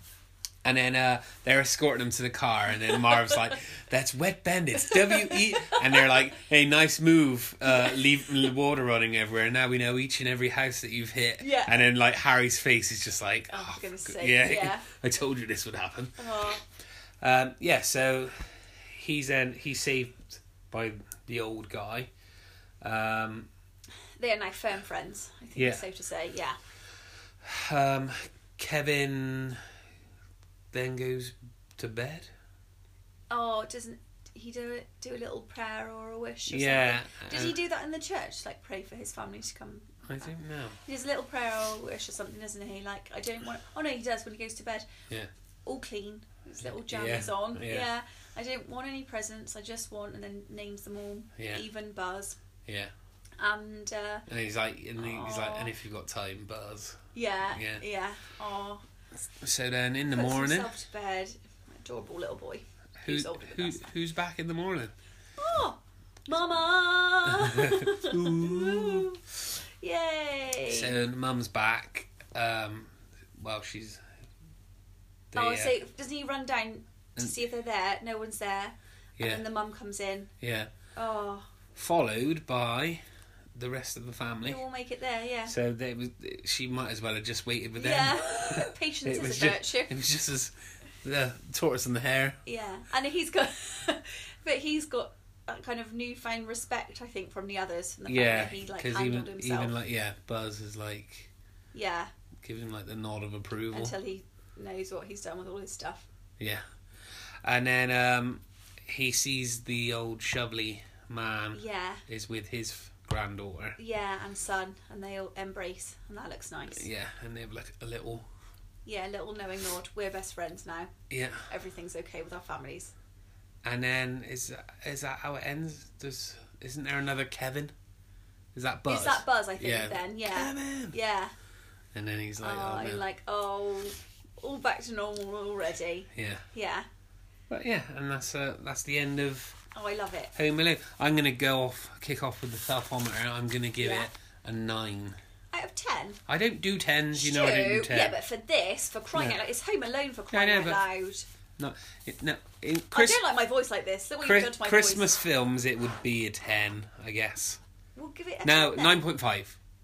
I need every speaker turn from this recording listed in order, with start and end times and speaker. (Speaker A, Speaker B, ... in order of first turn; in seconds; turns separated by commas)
Speaker A: 0.6-16.3, Speaker B: 4.8-6.2, Speaker B: 7.6-8.1, Speaker B: 11.4-11.9, Speaker B: 13.5-14.9, Speaker B: 16.2-16.6, Speaker A: 17.2-22.1, Speaker A: 22.8-23.5, Speaker B: 24.2-26.6, Speaker A: 25.6-25.8, Speaker A: 27.4-29.6, Speaker A: 30.7-32.3, Speaker B: 33.3-40.3, Speaker A: 36.5-37.6, Speaker A: 40.1-40.8, Speaker B: 40.8-44.9, Speaker B: 45.6-52.4, Speaker A: 46.8-47.9, Speaker A: 51.4-51.6, Speaker A: 52.6-52.9, Speaker B: 53.4-54.2, Speaker A: 54.3-57.0, Speaker B: 55.0-55.7, Speaker B: 57.1-58.9, Speaker A: 57.5-57.8, Speaker A: 59.4-60.7, Speaker B: 60.1-63.9, Speaker A: 63.0-64.9, Speaker B: 65.4-71.0, Speaker A: 67.3-69.1, Speaker A: 70.7-74.0, Speaker A: 75.3-75.8, Speaker B: 75.3-80.3, Speaker A: 79.2-79.4, Speaker A: 80.4-80.7, Speaker B: 81.0-81.5, Speaker A: 81.7-83.0, Speaker A: 83.5-84.6, Speaker B: 84.4-85.5, Speaker A: 85.5-92.4, Speaker B: 87.8-90.0, Speaker B: 92.5-99.7, Speaker A: 98.1-101.3, Speaker B: 101.7-102.1, Speaker A: 102.4-103.9, Speaker B: 103.7-106.1, Speaker A: 106.4-106.6, Speaker A: 107.4-113.8, Speaker B: 111.5-112.0, Speaker B: 113.8-116.9, Speaker A: 116.7-118.3, Speaker B: 118.9-120.9, Speaker A: 121.1-121.5, Speaker B: 121.5-122.9, Speaker A: 123.6-127.7, Speaker A: 128.5-130.9, Speaker B: 128.9-131.3, Speaker A: 131.9-133.0, Speaker B: 132.4-136.9, Speaker A: 136.1-136.4, Speaker A: 137.5-139.6, Speaker B: 139.7-140.3, Speaker A: 140.3-145.2, Speaker B: 143.8-144.1, Speaker B: 145.5-146.2, Speaker A: 146.3-148.2, Speaker B: 147.1-151.2, Speaker A: 149.1-149.4, Speaker A: 150.3-150.8, Speaker A: 151.6-153.2, Speaker B: 152.9-155.1, Speaker A: 154.2-157.6, Speaker B: 158.0-159.1, Speaker A: 158.4-159.6